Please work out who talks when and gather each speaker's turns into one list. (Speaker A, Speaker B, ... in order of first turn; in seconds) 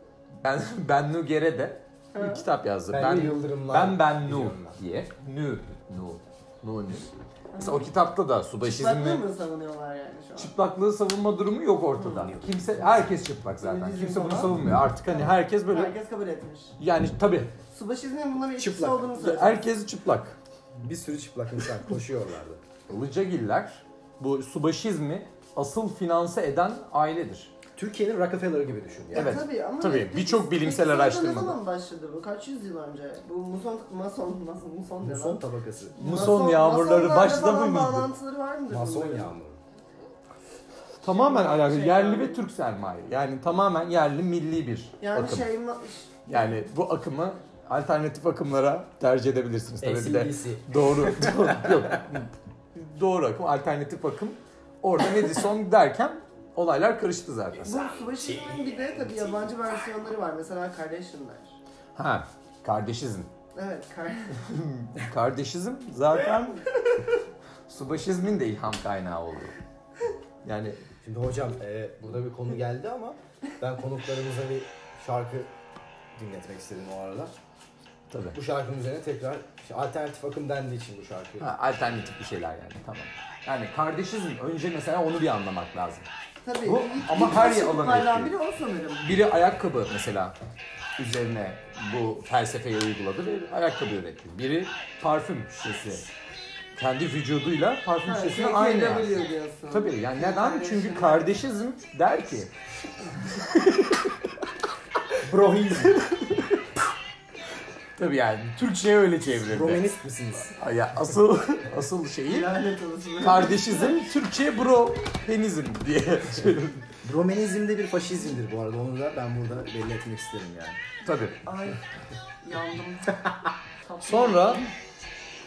Speaker A: 0.4-9.2, 10.4-15.9, 16.8-17.5, 19.2-20.4, 22.9-27.5, 29.1-31.6, 36.0-38.1, 41.0-45.4, 46.3-57.9, 62.0-63.3, 64.4-66.6, 67.7-69.5, 70.4-70.8, 78.1-78.4, 81.4-86.1, 86.6-88.3, 89.0-90.3, 91.0-96.1, 96.7-99.2, 99.7-102.5, 103.3-104.0, 108.0-109.8, 110.5-112.6, 113.2-116.9, 121.0-121.4, 124.0-124.6
Speaker B: 2.1-2.4, 7.5-7.9, 8.6-10.5, 13.6-16.7, 17.7-19.6, 29.1-35.4, 36.0-39.3, 41.1-42.4, 45.0-46.2, 57.6-61.5, 63.5-64.3, 86.4-89.1, 98.0-101.3, 112.2-113.9, 121.4-121.8, 122.4-124.7
Speaker C: 2.9-4.8, 12.0-13.1, 18.6-19.2, 20.8-22.6, 27.7-29.4, 35.0-36.0, 38.7-39.6, 49.8-52.0, 71.0-75.5, 76.2-77.3, 78.3-81.5, 105.2-106.0, 109.4-110.5, 117.0-120.8